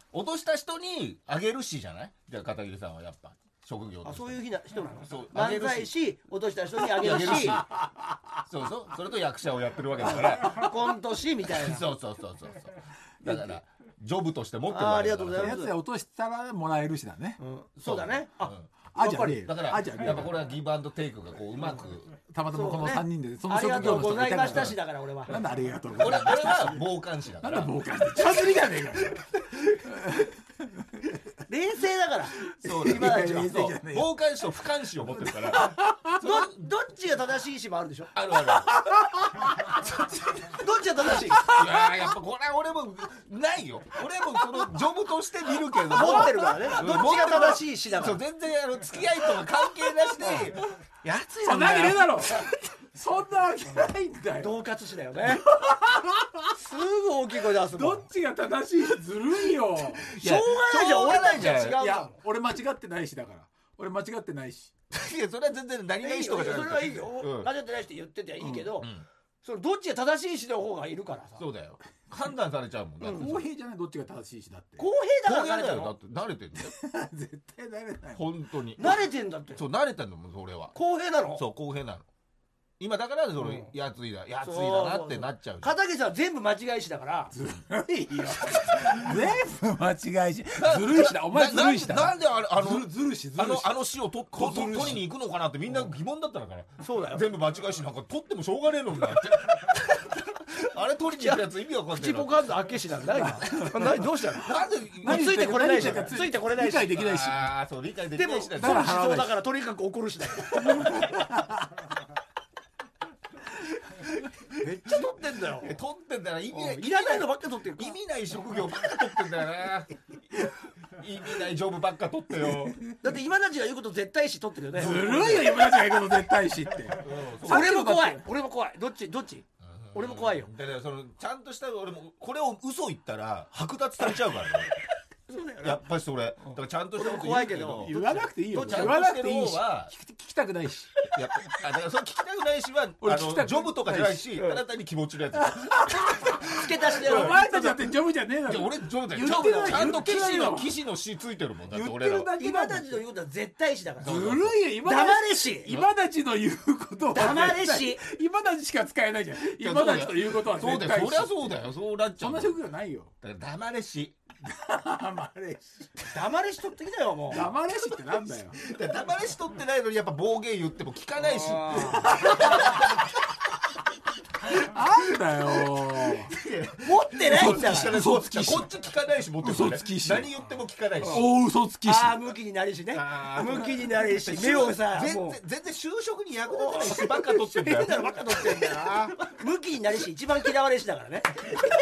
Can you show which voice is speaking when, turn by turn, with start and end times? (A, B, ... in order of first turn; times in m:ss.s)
0:00.1-0:04.4 A
0:04.0-0:07.7 B
0:05.0-0:05.9 A
0:06.9-0:07.7 A
0:07.0-0:08.2 C
0:08.4-0:10.7 A
0:10.4-0:11.8 B
0:11.4-0:15.6 A
0:14.7-0:15.7 B
0:15.4-0:17.4 C
0:17.4-0:19.4 B
0:17.8-0:18.7 A
0:18.9-0:20.4 C
0:19.2-0:22.2 A
0:22.2-0:26.9 C
0:22.5-0:25.4 B
0:25.9-0:28.6 A
0:27.4-0:31.2 C
0:29.1-0:29.8 A
0:31.5-0:33.5 B
0:32.4-0:34.1 C
0:32.6-0:36.5 A
0:35.1-0:36.2 C
0:36.2-0:38.1 B
0:38.1-0:38.9 A
0:38.4-0:39.8 C
0:39.8-0:40.3 A
0:40.4-0:41.5 B
0:41.3-0:52.4 A
0:41.4-0:42.0 C
0:45.9-0:48.2 B
0:45.9-0:46.8 C
0:50.2-0:50.5 B
0:51.4-0:54.6 C
0:54.4-0:55.4 B
0:55.2-0:56.5 C
0:56.5-0:58.1 B
0:57.6-1:00.1 C
1:00.1-1:01.8 A
1:00.2-1:02.2 B
1:01.4-1:04.7 C
1:04.9-1:07.5 A
1:06.0-1:08.9 B
1:08.4-1:08.7 C
1:08.8-1:09.1 A
1:09.4-1:11.4 B
1:11.4-1:13.4 A
1:13.0-1:13.3 B
1:13.1-1:14.9 C
1:14.8-1:15.9 B
1:15.2-1:16.8 A
1:16.6-1:18.3 C
1:18.1-1:20.7 A
1:18.8-1:19.6 B
1:20.7-1:21.4 B
1:21.3-1:22.0 A
1:22.8-1:25.7 A
1:23.4-1:23.7 B
1:24.4-1:27.3 B
1:27.3-1:33.7 C
1:30.5-1:42.4 A
1:34.3-1:35.0 C
1:36.8-1:37.2 B
1:41.2-1:47.0 B
1:43.1-1:44.0 C
1:44.4-1:46.1 A
1:45.0-1:47.5 C
1:46.9-1:48.9 A
1:48.1-1:51.2 B
1:48.6-1:49.3 C
1:50.5-1:51.6 C
1:54.2-2:02.8 A
1:54.6-1:55.7 B
1:56.5-1:58.0 B
2:03.0-2:06.0 B
2:04.7-2:08.2 C
2:04.8-2:05.5 A
2:07.0-2:07.8 A
2:07.4-2:10.5 B
2:09.6-2:14.8 A
2:15.3-2:15.8 B
2:15.6-2:17.9 A
2:16.4-2:19.0 B
2:17.7-2:21.6 C
2:18.5-2:19.9 A
2:21.1-2:27.4 A
2:23.0-2:24.4 C
2:25.3-2:30.8 C
2:26.5-2:27.9 B
2:28.4-2:32.3 A
2:29.1-2:30.0 B
2:31.7-2:32.9 C
2:32.3-2:35.7 B
2:34.0-2:41.6 C
2:34.0-2:34.6 A
2:37.1-2:38.0 B
2:39.4-2:42.6 A
2:42.2-2:43.1 C
2:43.2-2:44.2 A
2:44.4-2:46.1 C
2:46.1-2:47.5 B
2:47.3-2:48.6 C
2:48.5-2:53.2 A
2:51.2-2:52.4 B
2:51.8-2:52.8 C
2:54.4-2:56.3 C
2:54.5-2:54.8 A
2:55.4-3:01.3 A
2:56.8-2:58.0 B
2:57.3-2:58.7 C
2:59.4-3:00.3 C
3:01.0-3:01.2 B
3:01.0-3:02.2 C
3:01.8-3:05.4 B
3:02.9-3:09.4 A
3:06.5-3:11.6 B